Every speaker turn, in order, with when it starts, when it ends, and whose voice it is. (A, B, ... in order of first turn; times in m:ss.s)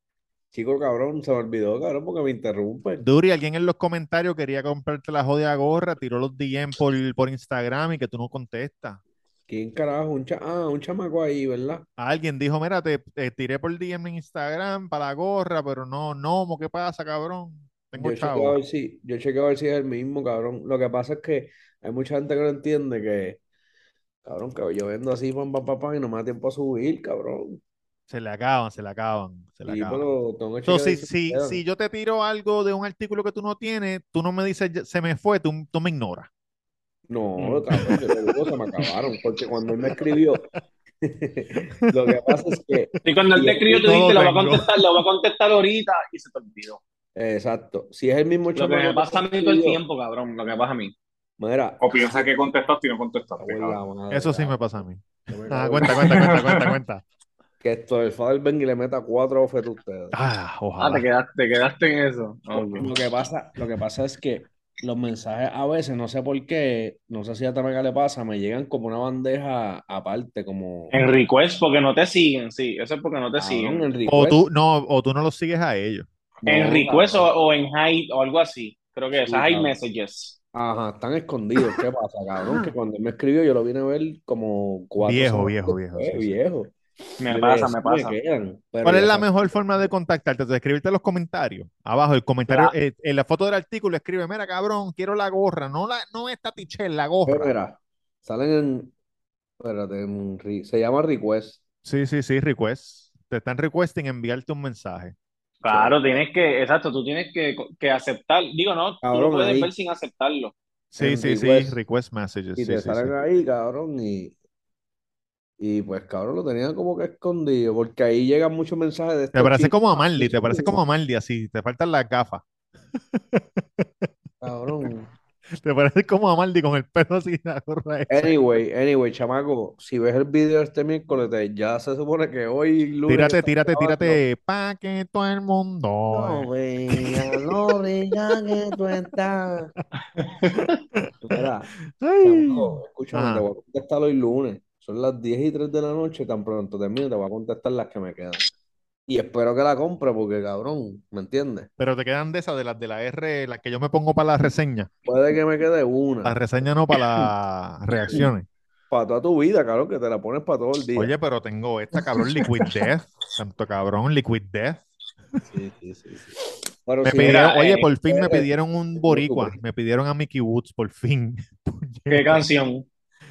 0:00.5-0:03.0 A
0:03.0-0:09.0 B
0:09.5-0:11.8 A
0:12.0-0:18.6 B
0:18.0-0:23.4 A
0:24.2-0:27.6 A
0:28.1-0:30.1 B
0:29.7-0:31.6 A
0:30.6-0:36.3 B
0:37.1-0:40.5 A
0:37.4-0:38.9 B
0:39.9-0:40.4 B
0:41.0-0:43.9 A
0:42.1-0:43.0 B
0:43.0-0:46.8 C
0:43.7-0:44.7 B
0:47.2-0:49.8 A
0:48.6-0:51.0 C
0:51.4-0:52.2 A
0:51.8-0:53.8 D
0:53.4-0:56.3 A
0:54.1-0:57.0 B
0:56.0-0:56.8 D
0:57.6-1:00.2 A
1:00.1-1:01.1 B
1:00.8-1:02.9 C
1:02.7-1:03.0 B
1:02.7-1:10.9 A
1:10.9-1:13.9 C
1:13.4-1:14.4 A
1:14.1-1:16.1 B
1:16.4-1:17.3 A
1:16.5-1:20.4 C
1:19.2-1:19.8 A
1:20.5-1:26.7 A
1:25.0-1:26.4 B
1:27.2-1:28.2 C
1:27.2-1:29.3 A
1:28.8-1:37.5 B
1:32.5-1:32.7 C
1:37.3-1:38.9 A
1:39.6-1:41.6 A
1:41.8-1:45.1 B
1:45.6-1:50.5 C
1:45.7-1:46.2 A
1:49.0-1:49.7 A
1:50.9-1:53.1 B
1:51.0-1:51.8 A
1:52.6-1:54.4 A
1:55.6-2:00.8 A
1:59.3-2:02.4 B
2:03.0-2:04.1 B
2:04.4-2:05.1 A
2:05.6-2:08.3 B
2:08.1-2:14.2 A
2:13.1-2:17.7 B
2:16.1-2:19.7 A
2:18.3-2:18.7 B
2:21.0-2:21.5 B
2:21.2-2:28.4 A
2:22.0-2:23.5 B
2:29.1-2:31.7 A
2:31.8-2:34.9 B
2:35.0-2:36.4 A
2:36.2-2:38.5 B
2:38.9-2:41.1 A
2:41.0-2:44.9 B
2:45.5-2:46.4 A
2:46.9-2:49.6 A
2:47.0-2:52.5 B
2:47.2-2:47.8 C
2:52.1-2:52.9 C